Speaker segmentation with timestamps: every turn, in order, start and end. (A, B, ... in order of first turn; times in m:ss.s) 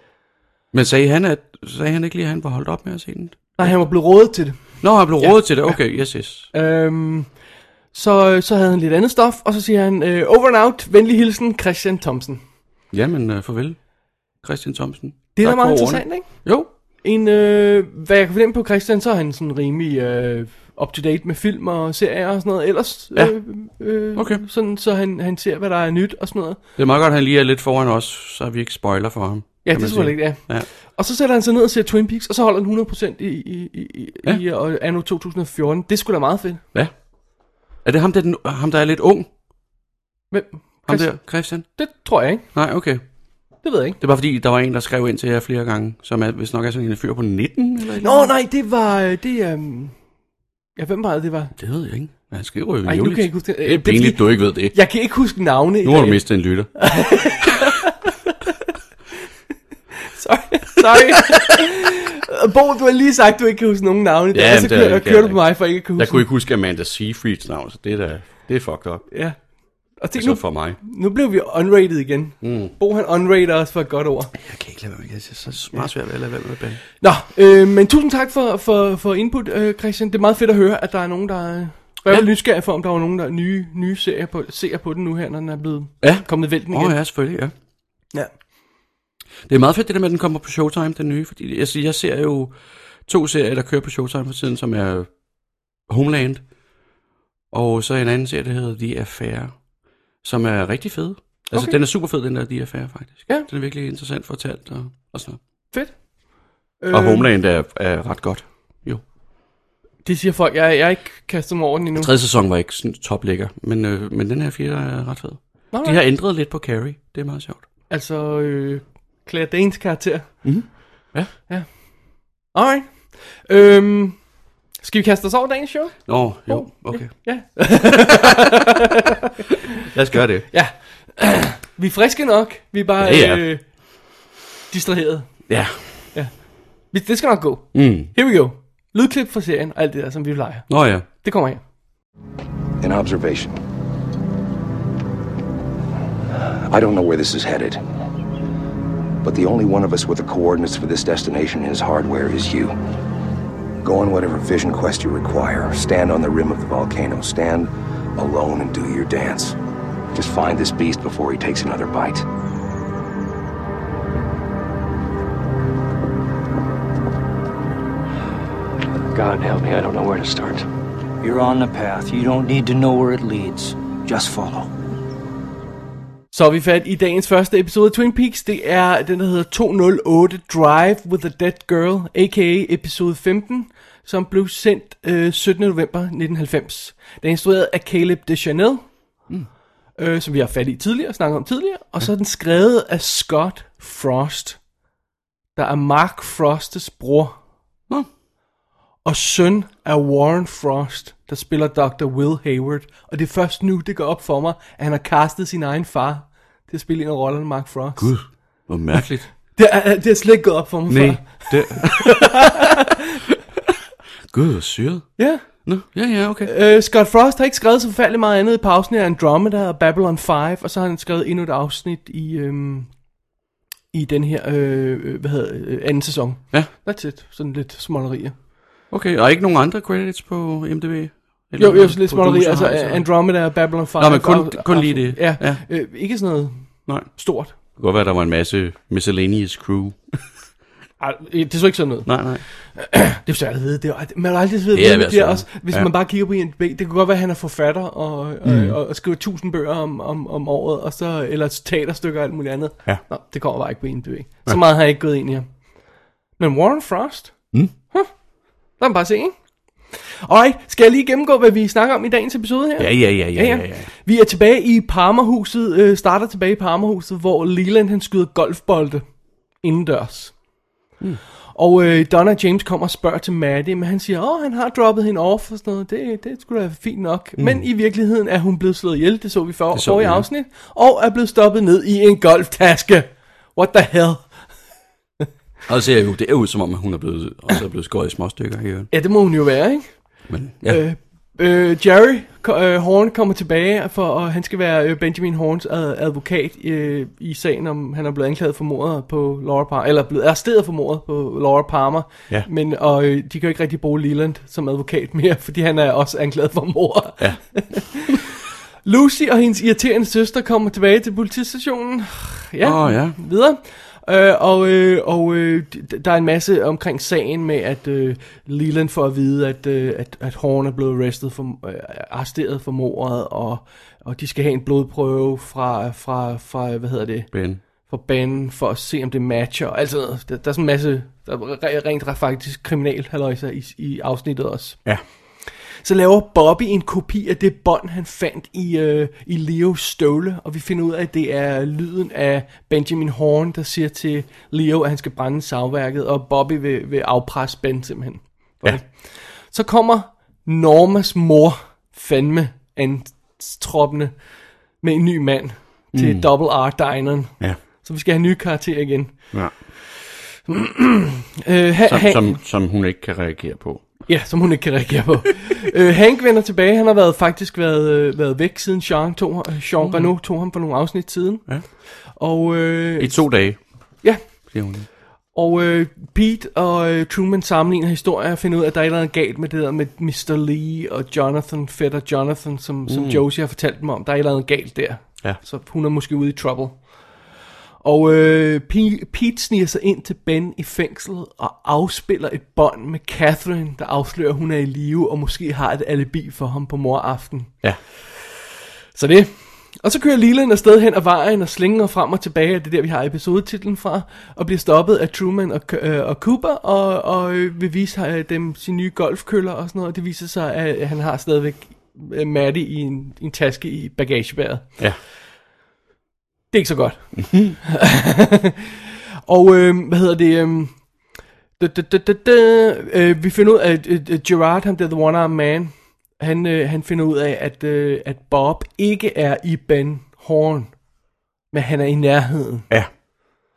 0:00.7-0:03.8 A
0:03.6-0:04.6 B
0:04.8-0:06.5 A
0:05.2-0:05.8 B
0:06.5-0:07.3 B
0:07.9-0:12.4 B
0:12.9-0:13.8 A
0:14.4-0:16.7 A
0:15.4-0:26.6 B
0:24.2-0:24.4 A
0:26.8-0:30.7 A
0:29.6-0:36.6 B
0:37.8-0:39.3 A
0:40.3-0:42.4 B
0:40.9-0:41.7 A
0:42.5-0:43.0 A
0:43.6-0:44.0 B
0:44.0-0:48.3 A
0:48.0-0:50.0 B
0:50.8-0:51.5 B
0:51.6-0:54.8 A
0:52.9-0:56.2 B
0:55.8-0:57.5 A
0:56.8-0:58.1 B
1:00.1-1:06.3 B
1:00.9-1:01.3 A
1:04.3-1:09.0 A
1:09.1-1:09.4 B
1:10.0-1:14.3 B
1:10.2-1:10.8 A
1:12.4-1:12.7 A
1:14.4-1:16.8 A
1:17.0-1:27.0 B
1:26.0-1:27.5 A
1:29.5-1:32.6 A
1:33.1-1:35.1 A
1:35.9-1:36.4 A
1:37.5-1:39.6 A
1:40.2-1:45.4 A
1:46.8-1:47.3 B
1:46.9-1:49.0 A
1:50.0-1:52.1 B
1:52.0-1:57.7 A
1:55.7-1:56.0 B
1:57.9-2:00.7 B
2:00.4-2:01.3 A
2:01.5-2:04.2 B
2:04.8-2:09.0 B
2:06.1-2:07.1 A
2:09.9-2:10.5 A
2:10.5-2:13.6 B
2:13.0-2:13.4 A
2:14.7-2:15.4 B
2:15.5-2:15.8 A
2:16.9-2:21.6 B
2:17.7-2:18.1 A
2:20.7-2:21.1 A
2:22.8-2:23.6 C
2:26.7-2:27.8 C
2:29.2-2:32.8 C
2:33.8-2:39.6 C
2:40.1-2:42.2 C
2:49.1-2:50.6 D
2:51.2-2:54.7 D
2:56.3-3:08.9 B
3:10.0-3:14.6 B
3:15.6-3:17.4 B
3:19.0-3:28.1 B
3:28.0-3:29.3 A
3:29.6-3:33.2 B
3:30.9-3:32.6 A
3:34.3-3:36.5 A
3:35.2-3:35.5 B
3:36.4-3:42.9 B
3:43.9-3:48.4 B
3:48.9-3:53.4 A
3:51.6-3:57.5 B
3:54.0-3:55.6 A
3:57.7-4:00.2 A
4:01.0-4:15.4 B
4:02.1-4:02.4 A
4:04.7-4:05.9 A
4:08.4-4:08.8 A
4:16.4-4:18.1 B
4:18.8-4:19.4 B
4:19.9-4:29.0 B
4:22.8-4:23.9 A
4:29.6-4:30.4 B
4:31.5-4:44.3 B
4:39.7-4:40.3 A
4:45.7-4:48.9 A
4:48.9-4:49.9 B
4:50.3-4:50.8 A
4:50.6-5:08.3 B
5:08.8-5:27.3 B
5:12.6-5:13.2 A
5:27.3-5:27.6 A
5:27.8-5:34.8 B
5:35.8-5:54.2 B
5:54.8-5:59.3 B
5:55.9-5:56.3 A
6:00.5-6:02.4 B
6:01.8-6:03.9 A
6:04.1-6:13.3 B
6:09.8-6:10.2 A
6:13.0-6:13.6 A
6:14.0-6:14.5 B
6:14.3-6:14.9 A
6:15.3-6:26.9 B
6:22.9-6:23.2 A
6:27.8-6:37.5 B
6:39.0-6:54.7 B
6:56.5-6:58.7 B
6:57.2-6:57.6 A
6:59.3-7:00.9 B
7:01.6-7:10.7 B
7:11.5-7:12.7 B